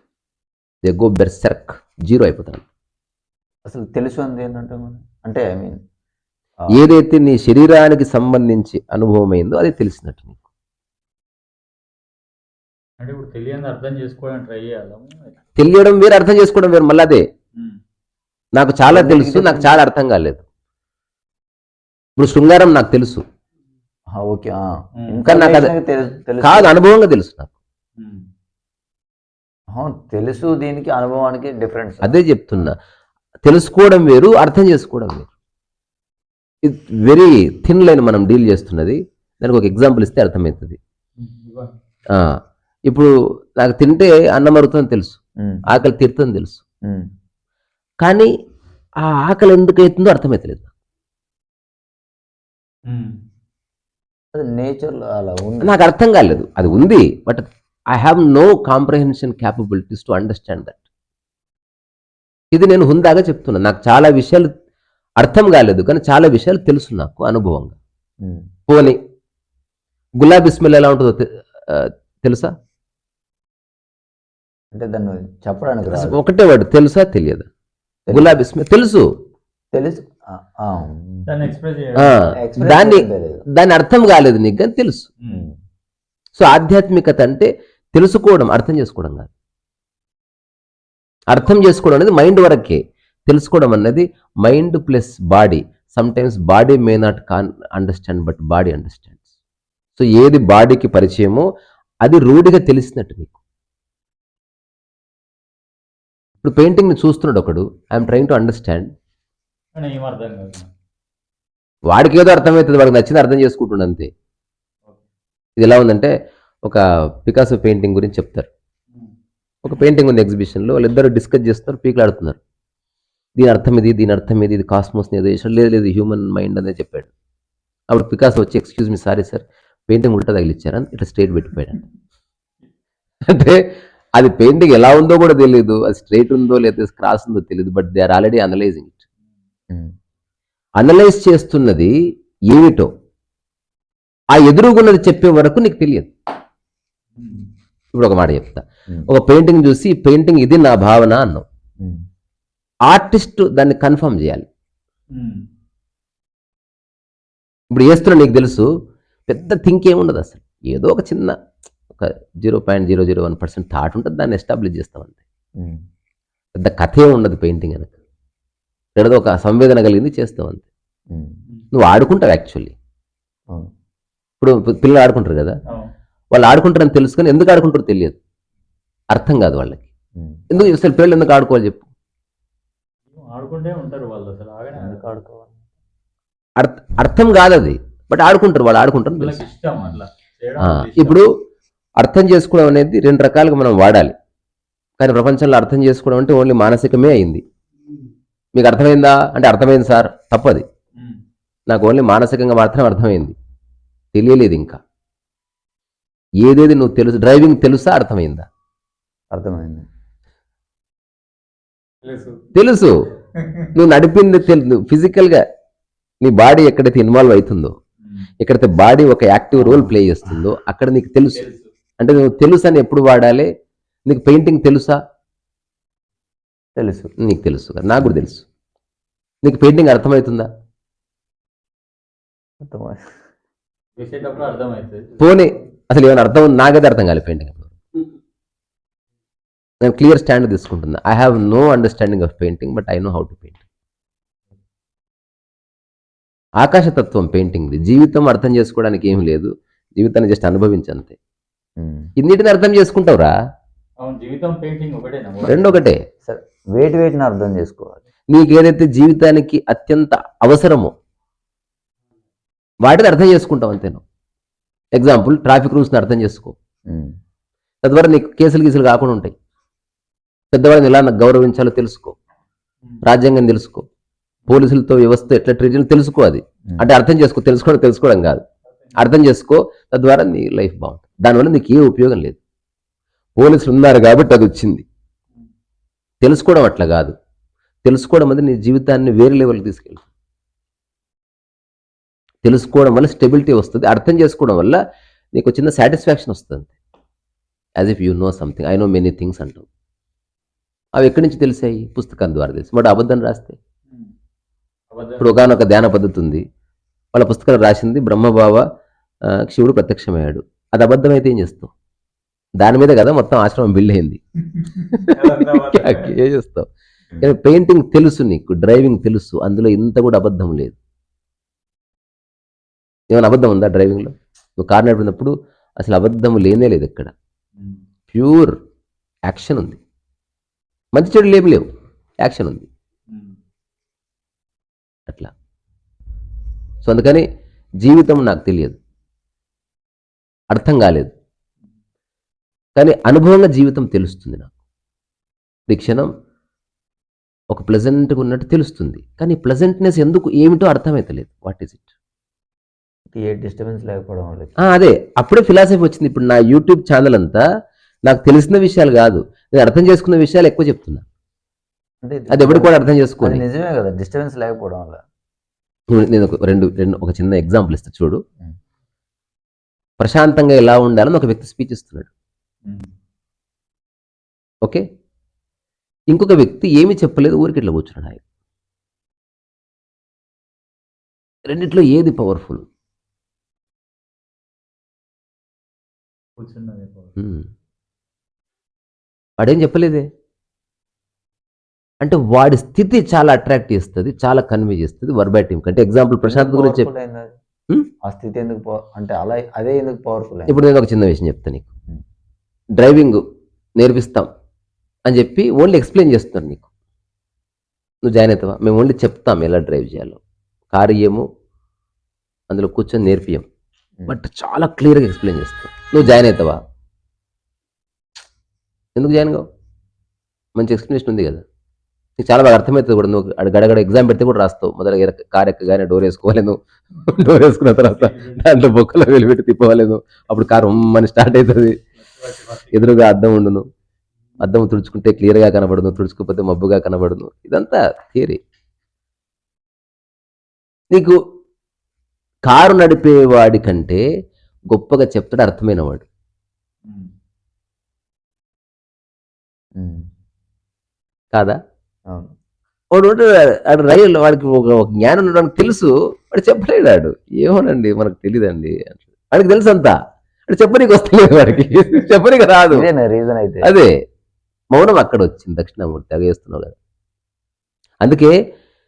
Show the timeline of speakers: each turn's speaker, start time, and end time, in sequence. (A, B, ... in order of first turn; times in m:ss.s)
0:00.8-0:02.6 A
0:03.6-0:05.8 B
0:06.7-0:10.4 A
0:13.0-0:15.4 C
0:15.6-0:17.2 A
0:18.6-0:20.4 A
0:18.9-0:19.8 B
0:22.2-0:23.2 A
0:24.1-0:26.8 B
0:25.0-0:25.2 C
0:25.3-0:25.7 A
0:26.4-0:27.5 A
0:28.0-0:28.3 C
0:29.7-0:32.2 B
0:32.0-0:32.8 A
0:33.4-0:35.3 A
0:36.6-0:40.8 A
0:41.2-0:41.7 C
0:42.1-0:46.6 A
0:46.8-0:47.1 B
0:48.0-0:48.3 A
0:49.0-0:50.7 A
0:52.9-0:53.2 C
0:54.3-0:55.7 B
0:55.6-1:00.8 A
1:02.5-1:04.5 A
1:05.2-1:07.8 A
1:08.2-1:08.5 B
1:08.7-1:09.0 A
1:10.2-1:12.5 A
1:14.7-1:16.2 B
1:15.9-1:17.5 A
1:18.1-1:18.4 B
1:18.1-1:19.1 A
1:19.7-1:21.5 B
1:21.3-1:22.3 C
1:22.0-1:25.1 A
1:22.3-1:23.4 B
1:25.3-1:25.6 B
1:26.4-1:29.3 A
1:31.3-1:39.2 A
1:40.0-1:41.4 A
1:42.0-1:43.3 A
1:46.4-1:48.9 A
1:49.7-1:50.7 C
1:51.9-1:54.1 A
1:55.6-1:56.1 A
1:56.6-1:58.5 A
1:59.6-2:02.4 A
2:03.4-2:07.1 A
2:07.9-2:11.8 A
2:13.3-2:13.6 A
2:14.2-2:19.0 A
2:20.8-2:21.9 A
2:22.5-2:22.9 A
2:24.3-2:26.1 A
2:27.2-2:27.5 C
2:27.9-2:31.4 A
2:32.9-2:34.5 A
2:35.1-2:35.4 C
2:37.7-2:38.7 A
2:39.3-2:41.4 A
2:41.9-2:45.2 A
2:45.6-2:45.8 B
2:46.6-2:47.9 A
2:49.0-2:50.6 A
2:51.1-2:51.4 B
2:51.7-2:52.7 A
2:54.4-2:55.6 A
2:56.3-2:58.2 A
2:59.1-2:59.8 A
3:00.2-3:00.4 B
3:00.5-3:01.8 A
3:03.1-3:05.0 C
3:04.7-3:05.6 B
3:06.6-3:09.4 A
3:09.2-3:11.2 C
3:10.6-3:11.3 A
3:12.0-3:14.1 A
3:15.0-3:17.4 A
3:18.6-3:20.6 A
3:21.7-3:23.3 A
3:24.1-3:24.8 A
3:26.4-3:28.5 A
3:29.3-3:29.8 B
3:32.0-3:32.4 C
3:32.5-3:32.9 A
3:33.4-3:33.7 C
3:33.7-3:35.4 A
3:36.2-3:37.8 A
3:38.0-3:38.3 C
3:38.4-3:41.5 A
3:39.6-3:40.0 B
3:41.3-3:41.7 C
3:42.0-3:43.5 A
3:44.0-3:45.0 A
3:46.8-3:47.1 B
3:47.2-3:48.4 A
3:49.4-3:50.5 A
3:52.6-3:53.2 B
3:54.0-3:55.4 C
3:55.2-3:57.7 A
3:59.8-4:03.6 A
4:06.6-4:11.2 A
4:11.8-4:12.1 B
4:12.2-4:13.3 A
4:14.0-4:15.8 C
4:15.4-4:16.0 A
4:16.2-4:18.0 B
4:18.3-4:20.9 A
4:22.8-4:24.0 A
4:25.0-4:26.6 A
4:26.9-4:27.2 B
4:27.8-4:29.3 A
4:30.5-4:32.2 A
4:33.0-4:33.8 A
4:34.5-4:38.4 A
4:39.0-4:42.4 A
4:43.4-4:44.8 A
4:46.2-4:47.1 A
4:47.8-4:50.0 A
4:52.4-4:54.8 A
4:55.3-4:56.7 A
4:57.8-4:59.6 A
5:01.0-5:03.6 A
5:04.9-5:05.4 C
5:05.2-5:06.4 A
5:07.1-5:08.6 A
5:09.3-5:11.7 A
5:12.6-5:14.2 A
5:14.5-5:16.1 C
5:14.9-5:16.7 A
5:17.2-5:20.8 A
5:23.1-5:27.1 A
5:28.1-5:28.6 A
5:29.3-5:29.8 A
5:30.9-5:31.6 A
5:32.2-5:32.7 A
5:33.1-5:33.4 C
5:36.8-5:37.2 A
5:37.8-5:38.8 A
5:40.5-5:41.1 A
5:42.8-5:44.5 A
5:45.7-5:46.1 A
5:47.5-5:51.8 A
5:53.1-5:54.7 B
5:54.6-5:57.4 A
5:58.0-6:01.0 A
6:02.0-6:05.0 B
6:02.3-6:03.4 A
6:05.9-6:08.2 A
6:10.0-6:12.1 A
6:16.1-6:18.2 A
6:21.4-6:22.6 A
6:26.4-6:27.2 C
6:27.2-6:27.4 A
6:29.4-6:30.1 A
6:32.0-6:36.9 A
6:36.2-6:37.4 B
6:38.0-6:40.6 B
6:40.5-6:41.7 A
6:42.8-6:43.2 A
6:43.8-6:44.3 A
6:45.1-6:46.6 A
6:48.0-6:50.2 A
6:50.7-6:51.2 A
6:52.5-6:53.4 A
6:54.1-6:56.6 A
6:59.0-6:59.4 A
7:00.6-7:01.4 A
7:02.2-7:11.8 A
7:07.8-7:08.4 C
7:12.0-7:13.0 C
7:12.7-7:13.6 A
7:14.4-7:18.4 A
7:20.9-7:21.2 A
7:22.5-7:24.0 A
7:24.7-7:26.0 A
7:26.8-7:27.1 C
7:29.8-7:30.1 B
7:31.3-7:31.6 A
7:32.9-7:39.9 A
7:40.5-7:42.9 A
7:42.7-7:43.7 B
7:43.6-7:43.9 A
7:44.7-7:46.8 A
7:48.0-7:48.4 A